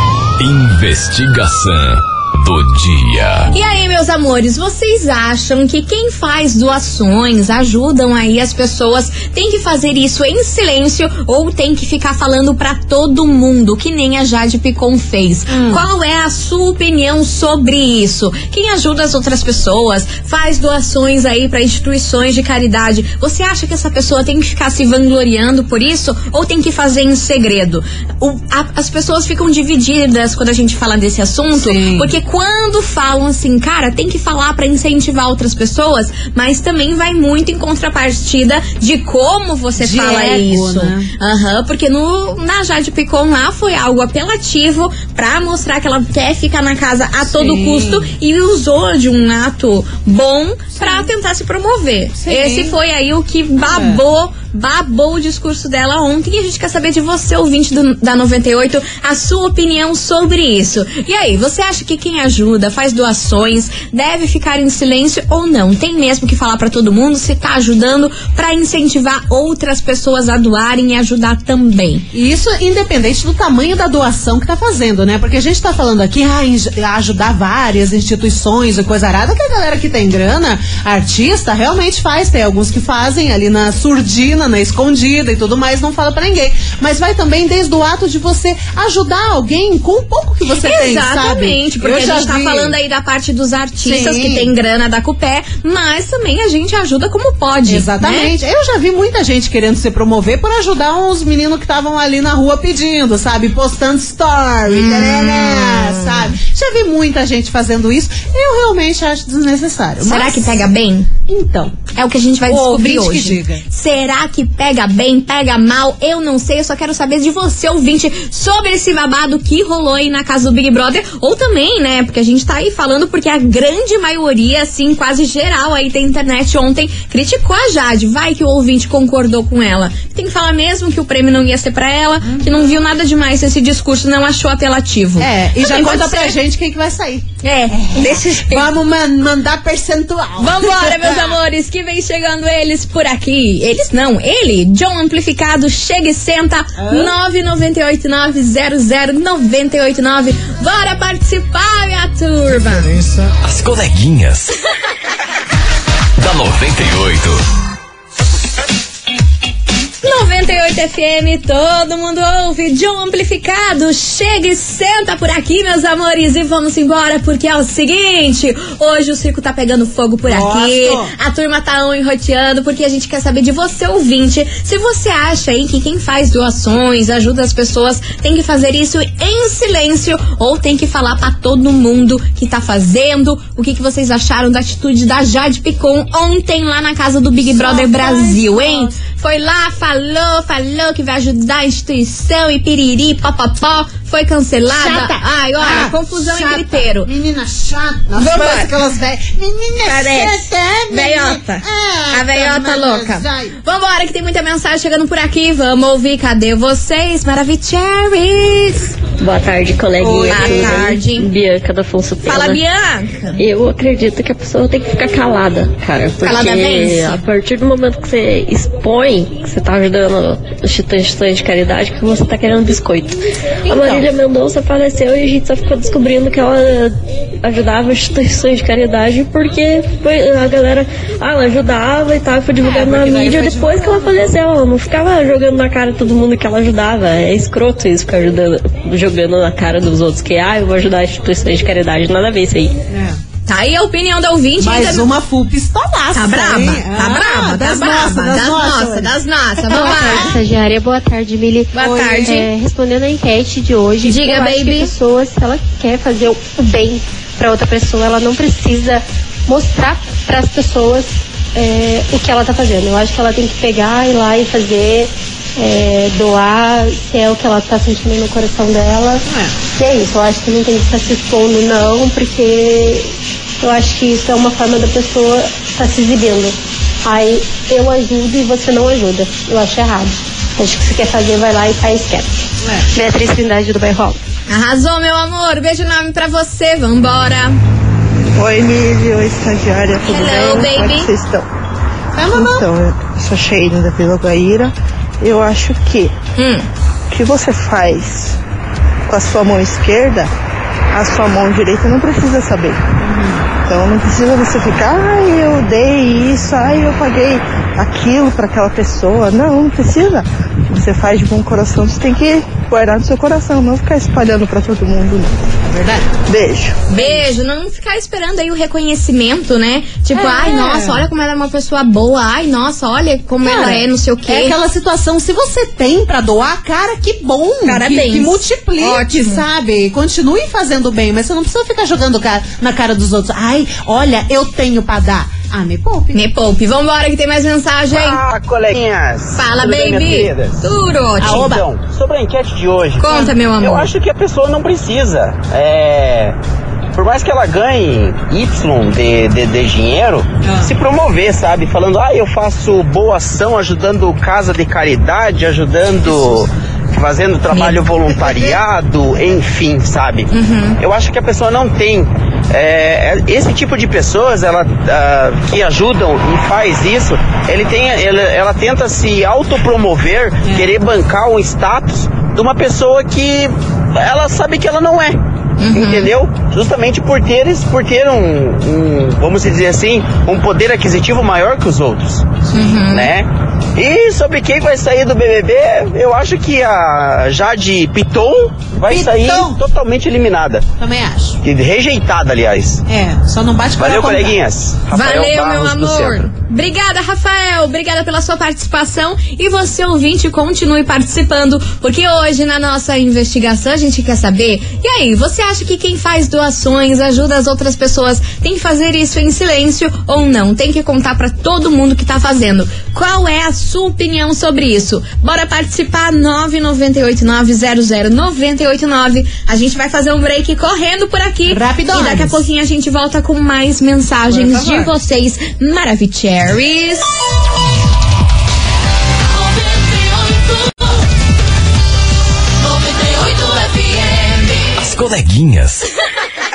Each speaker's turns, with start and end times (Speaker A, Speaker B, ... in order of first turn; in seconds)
Speaker A: 0.4-3.5, 153.4-154.5, 156.2-157.4, 434.8-435.8
Speaker B: 3.5-72.0, 90.6-98.3, 104.7-106.4, 110.0-111.1, 111.9-136.3, 137.4-138.7, 140.4-153.0, 160.0-197.1, 198.2-198.7, 199.8-208.9, 210.3-211.3, 212.2-213.4, 216.2-217.2, 243.5-245.1, 246.1-250.3, 251.7-252.5, 254.0-254.9, 284.5-287.6, 290.0-291.1, 296.4-296.6, 316.9-324.6, 327.6-329.4, 336.1-338.2, 339.3-341.6, 343.0-343.9, 357.5-357.8, 360.3-360.8, 375.6-376.1, 382.5-383.1, 394.9-427.1, 433.2-433.9
Speaker C: 15.5-15.8, 31.5-32.1, 39.8-41.1, 47.2-48.1, 50.8-51.1, 52.1-52.8, 53.6-54.0, 72.1-92.8, 93.8-94.5, 97.7-110.6, 111.3-111.8, 112.5-113.6, 132.2-132.8, 135.2-141.4, 146.8-147.2, 170.2-171.1, 187.5-189.0, 194.8-203.5, 210.0-210.8, 223.7-224.1, 232.6-234.3, 242.9-243.2, 244.6-250.3, 251.8-252.3, 292.1-292.6, 315.6-316.1, 316.9-317.2, 320.1-321.1, 323.4-336.2, 341.2-341.6, 350.4-350.7, 358.1-358.6, 370.4-370.7, 382.4-382.8, 388.8-389.6, 390.8-391.4, 392.9-394.4, 421.5-422.4, 424.3-424.9
Speaker D: 209.2-212.6, 213.4-242.8
Speaker E: 249.8-273.1, 273.6-282.4, 282.9-284.2
Speaker F: 288.3-291.4, 292.3-296.1, 297.1-298.4, 299.1-300.3, 300.9-302.9, 303.6-315.4, 316.2-316.8
Speaker G: 337.9-346.4, 346.9-390.6, 391.4-392.8, 393.8-396.3